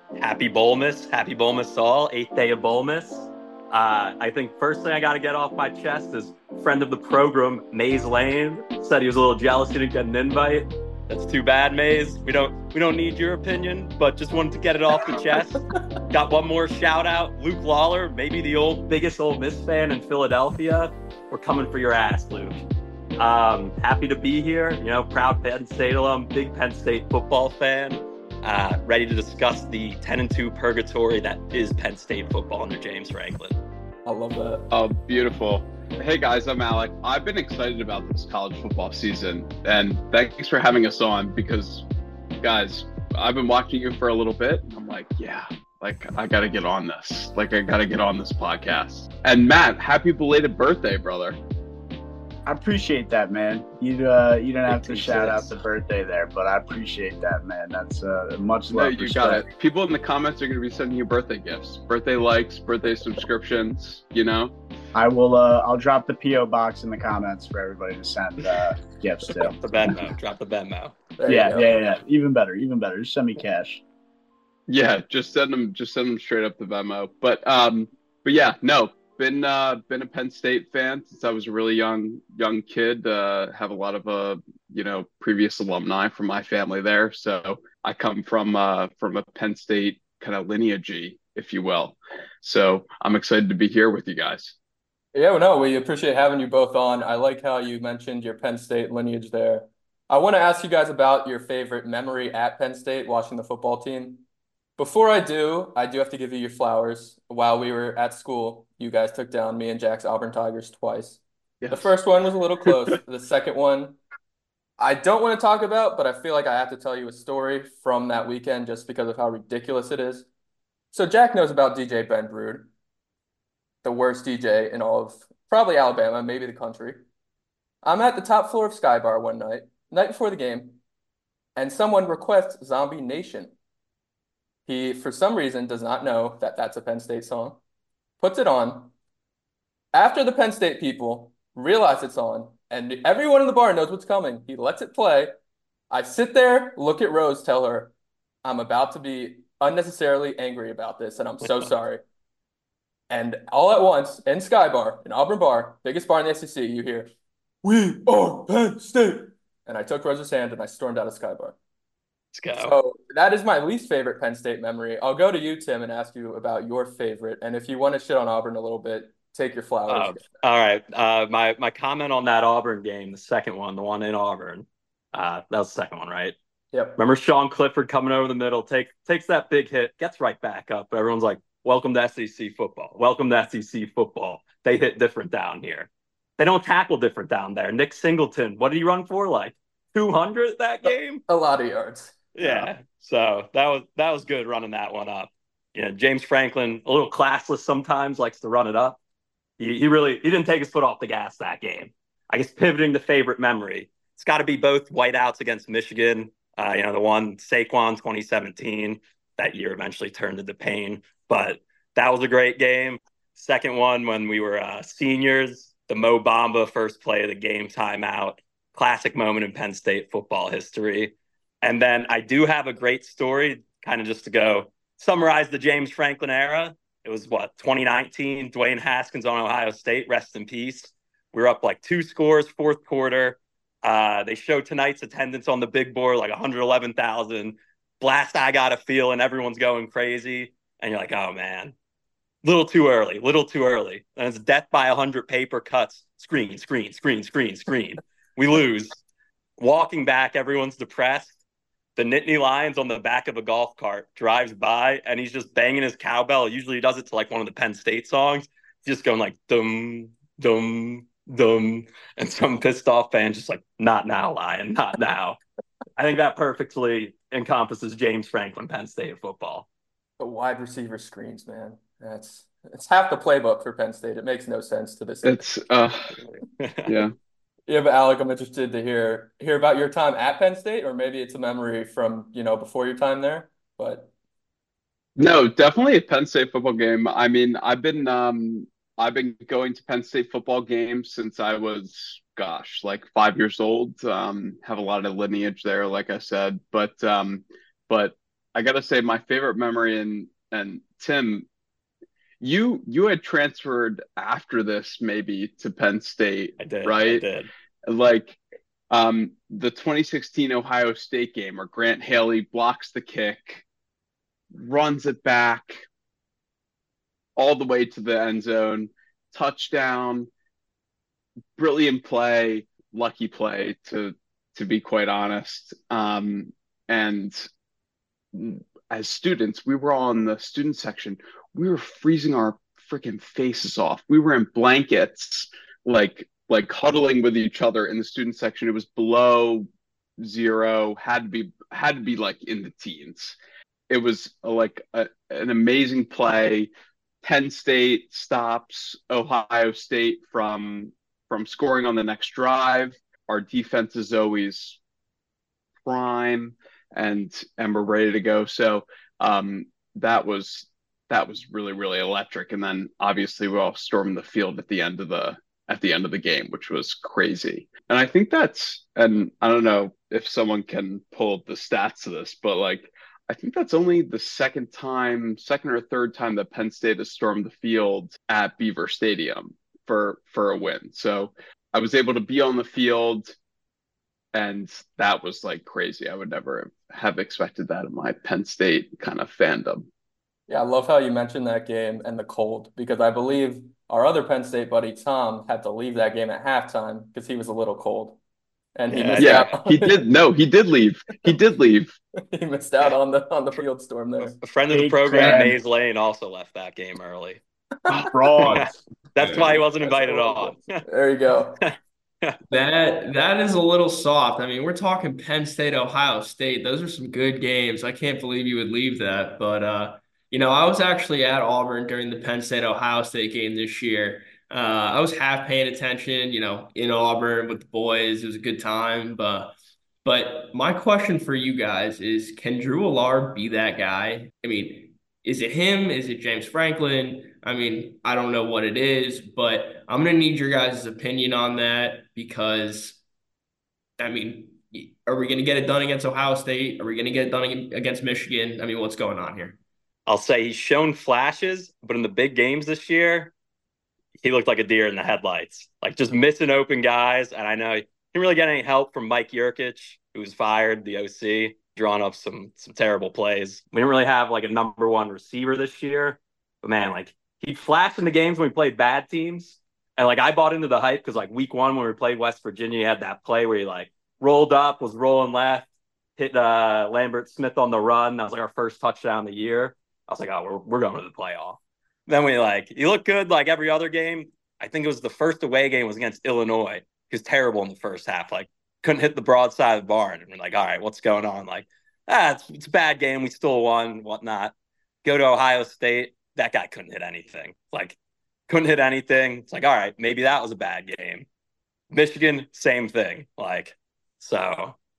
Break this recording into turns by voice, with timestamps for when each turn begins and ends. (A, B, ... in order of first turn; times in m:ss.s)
0:00.2-0:22.6 A
0:23.2-0:33.5 A
0:34.0-0:34.7 B
0:34.7-0:41.9 C
0:42.4-0:51.4 C
0:52.5-0:59.4 D
0:58.7-1:04.5 C
1:05.0-1:09.6 D
1:09.4-1:11.0 A
1:11.2-1:11.8 B
1:11.3-1:13.8 D
1:14.7-1:34.6 C
1:35.1-1:44.2 B
1:44.8-1:54.0 B
1:51.6-1:51.9 C
1:54.8-2:00.3 B
2:00.9-2:02.7 B
2:03.8-2:07.0 B
2:07.8-2:10.8 B
2:11.6-2:13.5 B
2:14.7-2:17.6 B
2:18.2-2:18.9 B
2:19.9-2:25.3 B
2:25.9-2:27.9 B
2:28.4-2:32.0 B
2:33.1-2:37.1 B
2:37.6-2:41.6 B
2:42.3-2:42.8 A
2:42.6-2:50.2 B
2:49.9-2:56.4 A
2:56.7-2:57.0 B
2:57.0-3:11.2 A
3:10.8-3:12.7 B
3:12.4-3:19.0 A
3:19.6-4:01.7 A
4:02.4-4:09.0 A
4:09.6-4:11.3 A
4:12.0-4:25.4 A
4:26.0-4:29.7 A
4:30.2-4:35.5 B
4:35.2-4:36.2 C
4:36.6-4:37.0 A
4:36.9-4:37.1 C
4:37.7-4:44.1 B
4:45.2-5:01.5 C
5:02.4-5:07.2 C
5:06.6-5:07.5 A
5:07.8-5:13.6 C
5:14.5-5:15.8 C
5:17.4-5:20.3 C
5:21.6-5:27.5 C
5:28.3-5:39.7 C
5:40.2-5:43.4 C
5:43.9-5:46.7 C
5:47.2-5:54.8 C
5:55.8-6:23.4 C
6:24.3-6:29.9 C
6:30.5-6:38.2 B
6:38.8-6:40.0 B
6:38.9-6:39.5 A
6:39.2-6:41.9 C
6:42.3-6:44.4 B
6:44.4-6:47.4 A
6:44.7-6:45.6 D
6:47.9-6:48.7 D
6:48.4-6:50.8 A
6:49.2-6:49.6 E
6:49.8-6:51.6 B
6:51.6-6:52.4 A
6:52.5-7:23.0 E
7:24.0-7:29.6 E
7:30.1-7:33.3 A
7:34.2-7:55.7 A
7:56.2-8:14.5 A
8:15.0-8:18.0 A
8:18.5-8:21.3 A
8:21.9-8:24.8 A